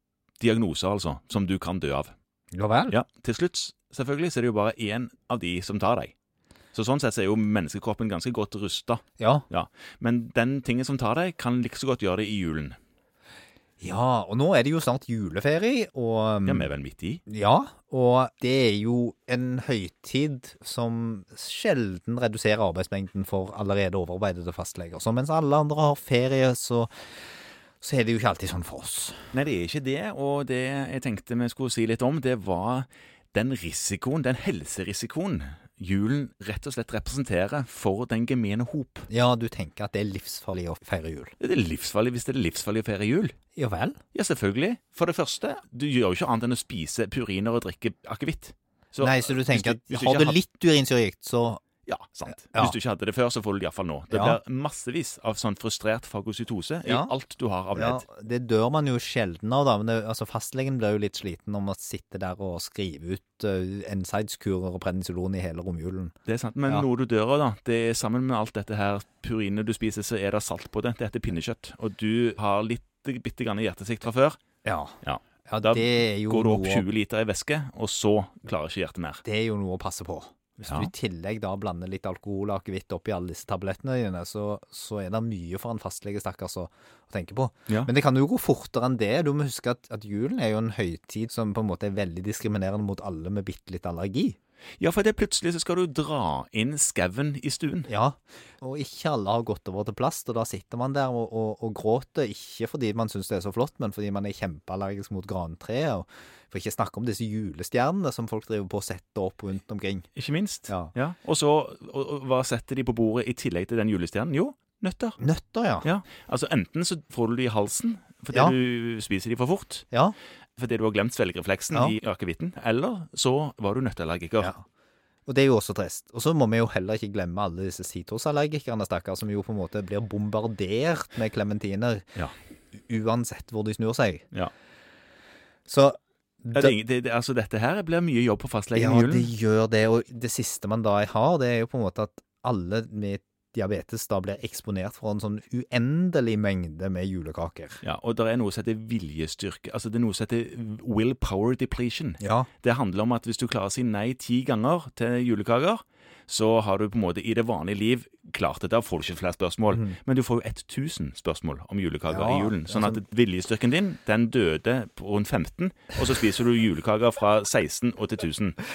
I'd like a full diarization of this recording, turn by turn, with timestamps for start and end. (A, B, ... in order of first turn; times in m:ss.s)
0:00.4-0:02.1 A
0:02.5-0:03.0 B
0:02.9-0:06.1 A
0:06.7-0:12.8 A
0:09.2-0:09.5 B
0:13.8-0:16.7 B
0:16.4-0:17.2 A
0:17.3-0:26.9 B
0:27.8-0:29.3 B
0:29.3-0:39.1 A
0:39.1-0:41.3 B
0:41.4-0:43.3 A
0:43.6-0:44.0 B
0:44.1-0:50.4 A
0:49.0-0:51.6 B
0:51.8-0:58.0 A
0:52.5-0:52.8 B
0:54.1-0:54.4 B
0:56.8-0:57.1 B
0:57.7-1:06.1 B
1:06.3-1:14.4 A
1:14.6-1:16.8 B
1:15.0-1:19.2 A
1:19.2-1:34.4 B
1:20.6-1:20.9 A
1:34.8-1:37.9 A
1:37.9-1:50.1 B
1:50.2-1:55.2 A
1:55.2-1:55.9 B
1:55.8-1:59.9 A
2:00.6-2:04.5 A
2:05.3-2:12.1 B
2:12.8-2:14.2 B
2:15.7-2:16.8 B
2:16.5-2:19.3 A
2:18.8-2:27.8 B
2:27.8-2:48.6 A
2:32.2-2:32.5 B
2:42.1-2:43.0 B